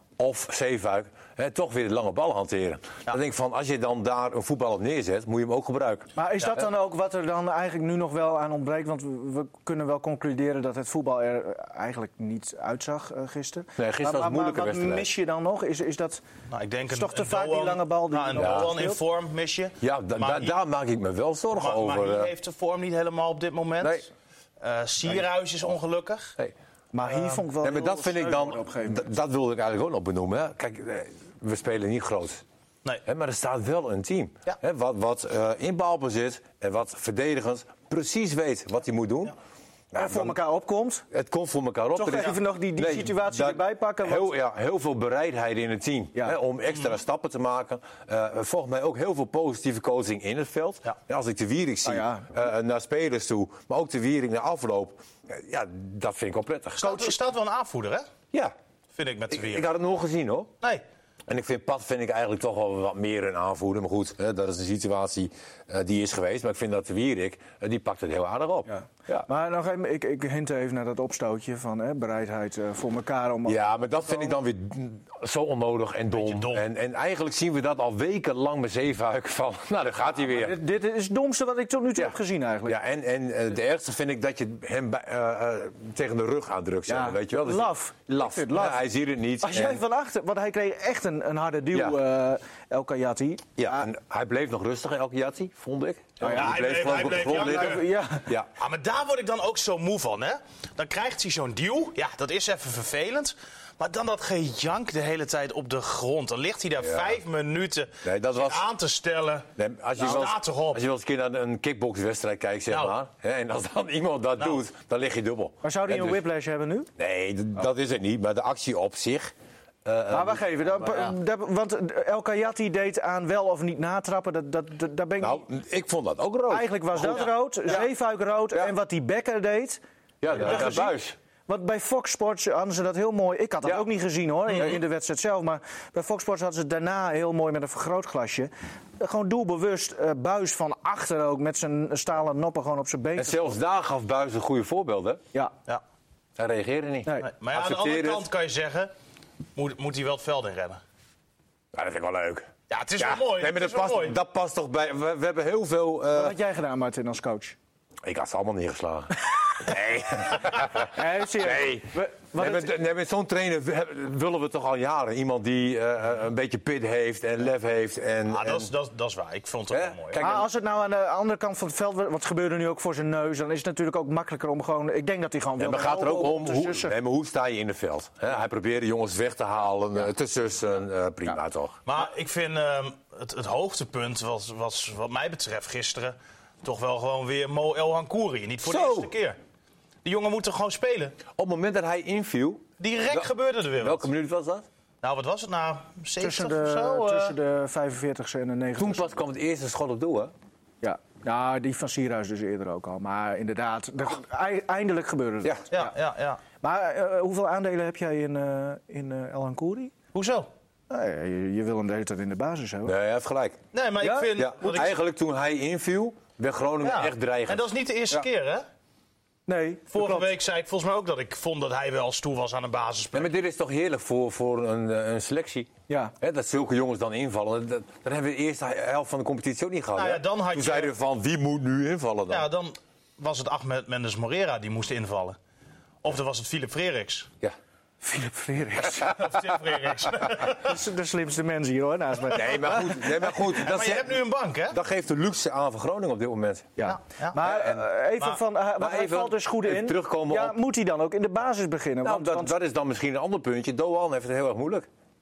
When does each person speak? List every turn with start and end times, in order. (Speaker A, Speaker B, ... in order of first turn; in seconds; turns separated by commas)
Speaker A: 0.2-6.1, Speaker B: 6.2-16.2, Speaker A: 13.8-15.1, Speaker C: 16.5-20.5, Speaker B: 16.9-19.0, Speaker A: 18.4-18.8, Speaker A: 19.8-22.3, Speaker C: 21.6-24.1, Speaker C: 24.6-26.3, Speaker B: 26.9-29.1, Speaker A: 27.6-32.4, Speaker A: 33.0-39.3, Speaker A: 39.9-40.4, Speaker B: 39.9-41.0, Speaker A: 41.1-57.0, Speaker B: 41.9-44.3, Speaker B: 51.8-52.3, Speaker C: 56.8-58.1, Speaker B: 56.8-57.1, Speaker C: 58.9-59.6, Speaker A: 59.3-60.5, Speaker A: 61.3-69.3, Speaker B: 68.7-74.4, Speaker A: 73.5-80.6, Speaker C: 76.1-76.6, Speaker B: 80.2-82.8, Speaker A: 82.7-89.8, Speaker B: 86.9-88.8, Speaker B: 89.4-93.8, Speaker A: 91.7-92.0, Speaker A: 93.6-98.5, Speaker B: 96.2-98.3, Speaker C: 96.2-97.8, Speaker C: 98.6-110.8, Speaker A: 106.8-107.2, Speaker A: 108.0-108.7, Speaker A: 109.6-116.2, Speaker B: 115.6-116.9, Speaker A: 117.0-119.3, Speaker A: 119.8-121.1, Speaker B: 120.1-125.5, Speaker A: 125.2-127.3, Speaker B: 126.5-143.4, Speaker A: 130.2-131.2, Speaker A: 143.2-145.2, Speaker A: 146.4-148.2, Speaker C: 147.2-148.9, Speaker C: 149.6-150.8, Speaker A: 151.7-156.3, Speaker C: 152.7-154.2, Speaker B: 156.1-157.6, Speaker A: 158.0-168.7, Speaker B: 160.8-162.7, Speaker C: 168.3-170.4, Speaker A: 169.7-170.4, Speaker B: 170.2-176.9, Speaker A: 175.6-181.8, Speaker C: 181.8-189.4, Speaker A: 188.7-189.1, Speaker C: 190.0-191.2, Speaker A: 191.3-193.3, Speaker C: 192.8-194.1, Speaker A: 193.8-194.7, Speaker C: 195.0-197.3, Speaker B: 196.2-199.2, Speaker A: 198.8-200.3, Speaker B: 200.8-205.9, Speaker C: 205.7-206.4, Speaker B: 206.6-209.9, Speaker C: 210.1-210.5, Speaker B: 210.9-212.9, Speaker A: 212.8-213.6, Speaker C: 213.7-214.9, Speaker B: 214.0-214.8, Speaker A: 214.3-217.7, Speaker C: 216.8-218.6, Speaker B: 219.5-220.3, Speaker C: 219.9-223.3, Speaker A: 223.1-232.5, Speaker B: 225.9-226.1, Speaker C: 229.9-230.9, Speaker C: 232.3-235.4, Speaker C: 236.0-237.3, Speaker B: 238.0-239.3, Speaker C: 238.9-240.8, Speaker B: 240.5-243.2, Speaker A: 242.3-246.7, Speaker C: 243.3-244.8, Speaker B: 246.8-252.5, Speaker C: 246.9-247.4, Speaker A: 247.4-247.8, Speaker A: 248.8-250.6, Speaker A: 252.0-254.9